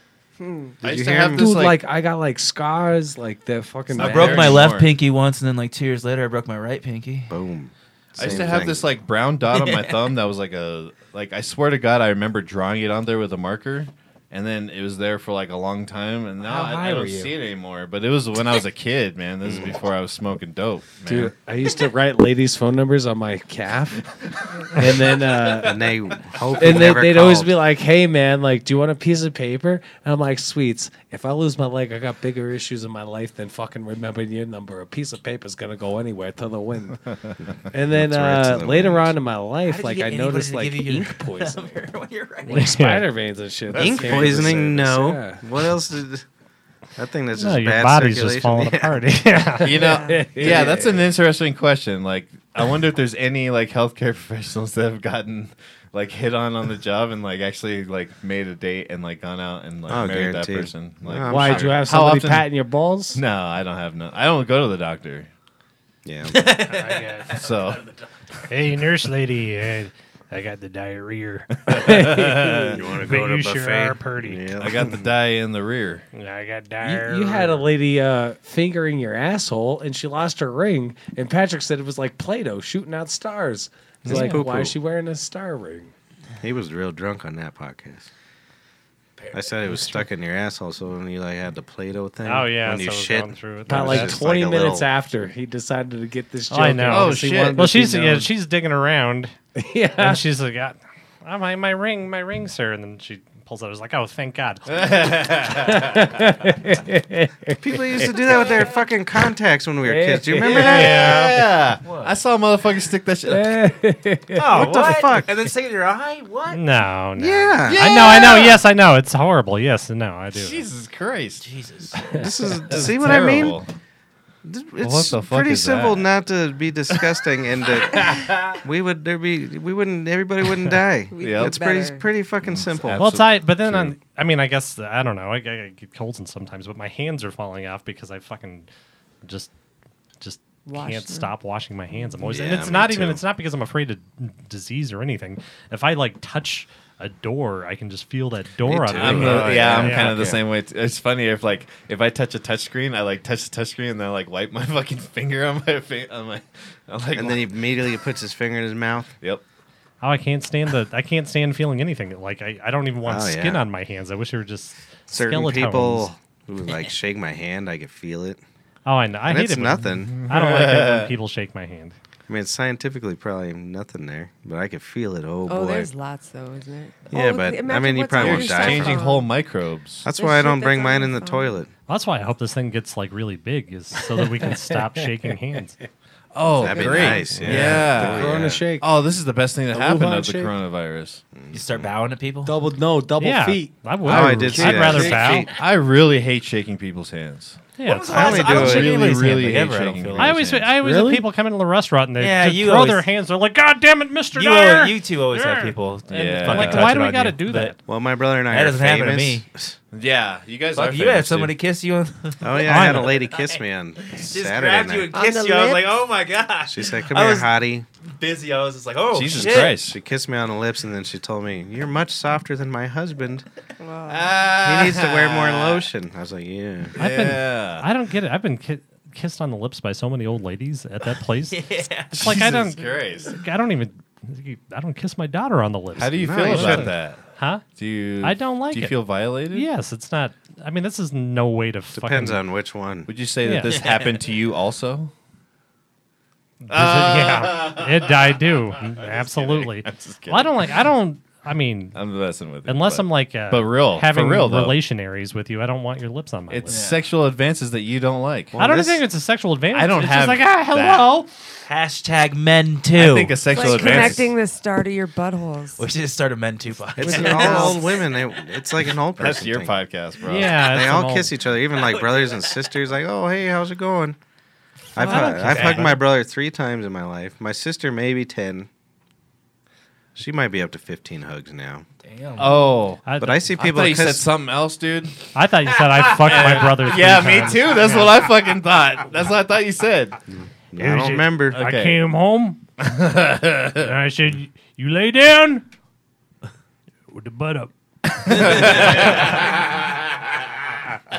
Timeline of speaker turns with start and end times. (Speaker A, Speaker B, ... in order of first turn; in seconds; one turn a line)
Speaker A: 0.4-0.7
Speaker B: 0.8-1.6
Speaker C: 0.8-1.8
Speaker D: 1.4-4.6
Speaker C: 3.9-4.9
Speaker E: 4.0-7.3
Speaker B: 7.3-8.9
Speaker C: 8.2-21.3
Speaker E: 9.5-9.9
Speaker E: 16.4-17.3
Speaker B: 19.4-19.8
Speaker D: 21.1-24.1
Speaker D: 24.7-25.9
Speaker B: 25.6-27.6
Speaker D: 26.6-37.1
Speaker D: 37.7-41.8
Speaker B: 37.9-39.1
Speaker E: 39.7-42.7
Speaker F: 42.5-43.1
Speaker D: 42.5-45.4
Speaker C: 43.7-44.6
Speaker B: 43.8-46.3
Speaker B: 47.0-49.1
Speaker F: 47.4-49.9
Speaker C: 49.6-62.5
Speaker D: 49.8-51.1
Speaker A: 49.8-50.3
Speaker B: 59.9-61.9
Speaker D: 61.2-63.2
Speaker C: 63.1-65.3
Speaker B: 66.0-66.5
Speaker E: 66.3-68.0
Speaker F: 66.7-67.4
Speaker C: 67.3-67.8
Speaker F: 68.5-72.4
Speaker D: 71.7-72.8
Speaker C: 71.7-72.8
Speaker B: 72.7-75.1
Speaker F: 72.9-74.5
Speaker C: 74.6-76.1
Speaker F: 76.1-77.8
Speaker D: 76.8-85.9
Speaker C: 84.0-84.5
Speaker B: 84.1-84.8
Speaker B: 86.4-88.1
Speaker E: 89.2-89.5
Speaker B: 89.3-94.9
Speaker F: 92.2-94.2
Speaker D: 93.7-98.3
Speaker F: 96.5-99.3
Speaker C: 96.9-97.7
Speaker D: 99.6-100.2
Speaker F: 100.0-104.9
Speaker C: 104.7-106.2
Speaker D: 105.6-108.6
Speaker B: 107.6-111.2
Speaker D: 109.8-111.0
Speaker C: 110.5-113.7
Speaker F: 110.7-111.4
Speaker E: 111.8-112.2
Speaker D: 113.3-114.7
Speaker E: 114.3-116.7
Speaker B: 114.6-115.3
Speaker F: 116.5-120.6
Speaker B: 117.2-118.0
Speaker C: 117.7-118.6
Speaker C: 120.3-121.4
Speaker E: 121.4-122.3
Speaker B: 122.2-123.6
Speaker C: 122.7-123.7
Speaker B: 124.4-133.1
Speaker C: 124.8-126.1
Speaker C: 127.9-128.6
Speaker C: 130.6-131.6
Speaker A: 131.1-132.1
Speaker C: 132.4-133.9
Speaker F: 133.0-138.7
Speaker F: 139.2-139.5
Speaker F: 140.2-150.3
Speaker A: 140.7-141.3
Speaker B: 142.2-143.2
Speaker B: 148.7-150.4
Speaker C: 149.0-157.6
Speaker B: 157.2-159.1
Speaker F: 160.0-166.1
Speaker B: 163.1-163.7
Speaker B: 165.1-168.4
Speaker F: 168.8-172.0
Speaker B: 169.3-170.2
Speaker C: 170.1-171.2
Speaker B: 172.3-175.9
Speaker A: 175.5-179.3
Speaker B: 177.1-179.1
Speaker C: 178.2-180.1
Speaker B: 180.0-181.7
Speaker A: 180.1-181.6
Speaker F: 181.9-185.8
Speaker D: 184.5-185.0
Speaker C: 186.3-191.2
Speaker B: 186.6-188.6
Speaker F: 187.1-187.8
Speaker D: 187.6-188.9
Speaker D: 189.7-190.5
Speaker B: 191.4-191.9
Speaker E: 191.5-192.6
Speaker D: 192.4-195.4
Speaker F: 193.2-195.5
Speaker B: 194.1-195.5
Speaker C: 194.1-194.6
Speaker C: 195.5-197.6
Speaker F: 197.8-198.8
Speaker E: 197.8-200.5
Speaker B: 198.1-199.0
Speaker C: 198.2-200.7
Speaker F: 200.2-207.8
Speaker D: 200.8-201.3
Speaker E: 202.2-203.1
Speaker E: 204.3-207.7
Speaker C: 206.1-207.0
Speaker B: 207.9-209.8
Speaker E: 208.5-209.5
Speaker C: 209.9-211.6
Speaker E: 210.8-217.5
Speaker B: 212.4-215.1
Speaker F: 212.7-213.0
Speaker A: 215.1-215.9
Speaker B: 216.7-217.9
Speaker E: 218.2-219.8
Speaker C: 219.1-220.0
Speaker B: 219.4-223.4
Speaker A: 223.8-224.5
Speaker C: 224.1-225.9
Speaker B: 224.6-227.0
Speaker C: 227.0-227.9
Speaker F: 227.0-237.6
Speaker E: 231.5-232.4
Speaker C: 232.1-233.3
Speaker C: 236.0-237.2
Speaker B: 236.2-236.9
Speaker C: 237.8-239.7
Speaker F: 238.2-239.0
Speaker F: 239.5-242.4
Speaker B: 241.9-243.1
Speaker C: 243.1-245.1
Speaker F: 243.4-243.8
Speaker E: 243.7-244.2
Speaker F: 246.6-252.0
Speaker C: 246.7-250.9
Speaker C: 251.9-254.8
Speaker F: 252.7-256.9
Speaker C: 256.5-258.6
Speaker E: 256.7-257.0
Speaker B: 258.5-259.0
Speaker F: 258.6-261.3
Speaker C: 259.7-261.1
Speaker E: 261.6-264.0
Speaker C: 262.9-264.3
Speaker A: 263.5-265.9
Speaker E: 265.8-268.4
Speaker B: 267.0-269.8
Speaker C: 269.2-270.7
Speaker F: 270.2-271.3
Speaker B: 270.6-274.2
Speaker E: 271.6-272.7
Speaker B: 274.9-278.7
Speaker F: 275.0-276.0
Speaker E: 275.0-276.0
Speaker B: 280.2-281.9
Speaker E: 282.0-282.7
Speaker C: 282.4-283.0
Speaker F: 283.0-283.5
Speaker B: 283.2-284.3
Speaker C: 283.6-290.2
Speaker F: 285.3-288.2
Speaker B: 290.3-291.6
Speaker F: 290.8-292.6
Speaker C: 291.6-292.0
Speaker C: 292.9-293.9
Speaker F: 293.7-295.6
Speaker F: 297.1-299.4
Speaker C: 298.3-300.5
Speaker E: 298.7-299.0